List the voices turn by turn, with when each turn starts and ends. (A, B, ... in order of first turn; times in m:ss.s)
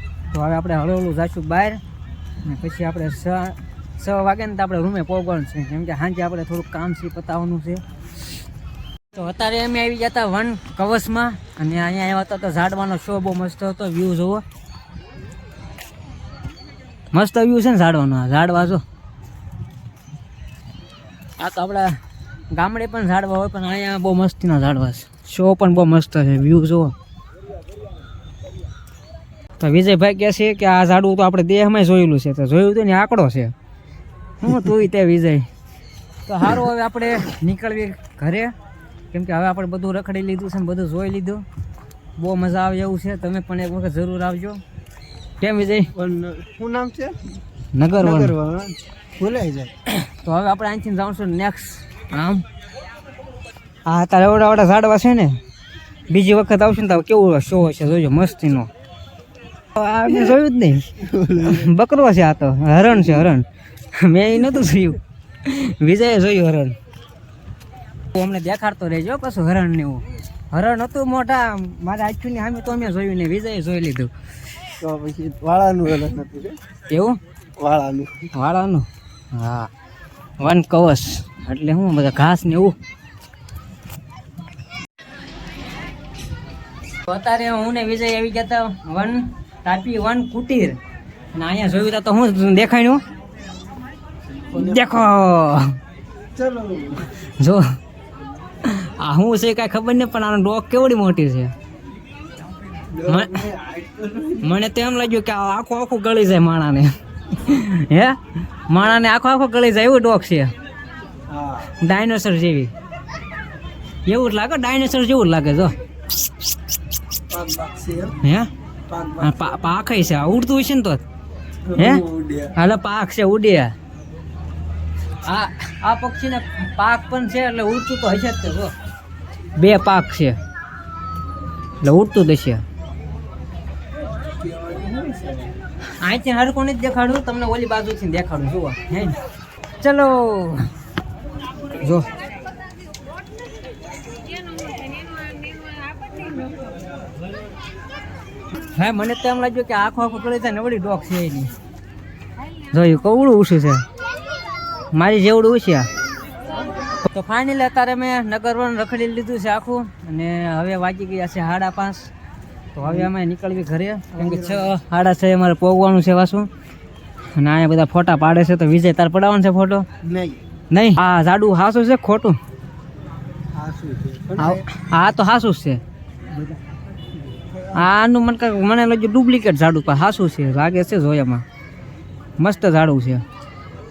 0:00.3-0:01.8 A
0:02.4-0:07.8 A
0:09.1-0:14.4 A
0:17.1-0:18.8 A
0:21.4-0:22.0 A
0:22.5-0:26.9 A
0:29.6-0:33.5 A
0:34.4-0:35.5 A
0:36.2-0:38.5 A
0:39.1-0:41.4 A
0:42.2-0:44.6 A
0:45.4-0:45.9 A
0:46.0-0:47.2 B
0:47.7-0:48.3 A
0:48.0-0:49.7 B
0:49.9-0:52.4 A
0:53.8-0:55.4 A
0:56.1-0:58.7 A
0:59.7-1:00.9 A
1:00.1-1:00.3 B
1:01.0-1:01.7 B
1:01.4-1:06.8 A
1:02.8-1:03.3 B
1:08.1-1:14.1 A
1:14.8-1:16.6 B
1:16.9-1:17.2 A
1:17.6-1:18.3 B
1:18.3-1:19.7 A
1:20.4-1:22.8 A
1:27.0-1:30.8 A
1:31.3-1:33.0 A
1:34.5-1:34.9 B
1:34.5-1:35.8 A
1:36.3-1:37.1 B
1:37.4-1:37.6 A
1:38.6-1:41.5 A
1:42.9-1:44.5 B
1:43.0-1:43.4 A
1:44.4-1:48.2 A
1:48.7-1:50.5 A
1:51.3-1:51.7 B
1:51.8-1:52.7 A
1:54.1-1:55.7 A
1:57.3-1:58.2 B
1:58.2-1:58.5 A
1:58.9-1:59.4 B
1:59.2-2:01.0 A
2:01.7-2:02.5 B
2:01.8-2:02.0 A
2:02.5-2:03.7 A
2:05.2-2:08.7 A
2:09.6-2:10.4 A
2:11.8-2:12.6 A
2:14.4-2:15.5 B
2:16.0-2:19.1 A
2:19.8-2:20.7 A
2:21.8-2:22.1 A
2:28.7-2:31.5 A
2:32.7-2:33.8 A
2:34.9-2:35.9 A
2:37.1-2:42.1 A
2:42.7-2:46.5 A
2:42.8-2:43.1 B
2:44.1-2:44.7 B
2:47.4-2:49.8 A
2:50.0-2:50.4 B
2:50.7-2:52.4 A
2:53.5-2:54.6 B
2:54.4-2:55.8 A
2:57.3-2:57.9 B
2:57.7-3:01.4 A
3:02.4-3:03.2 A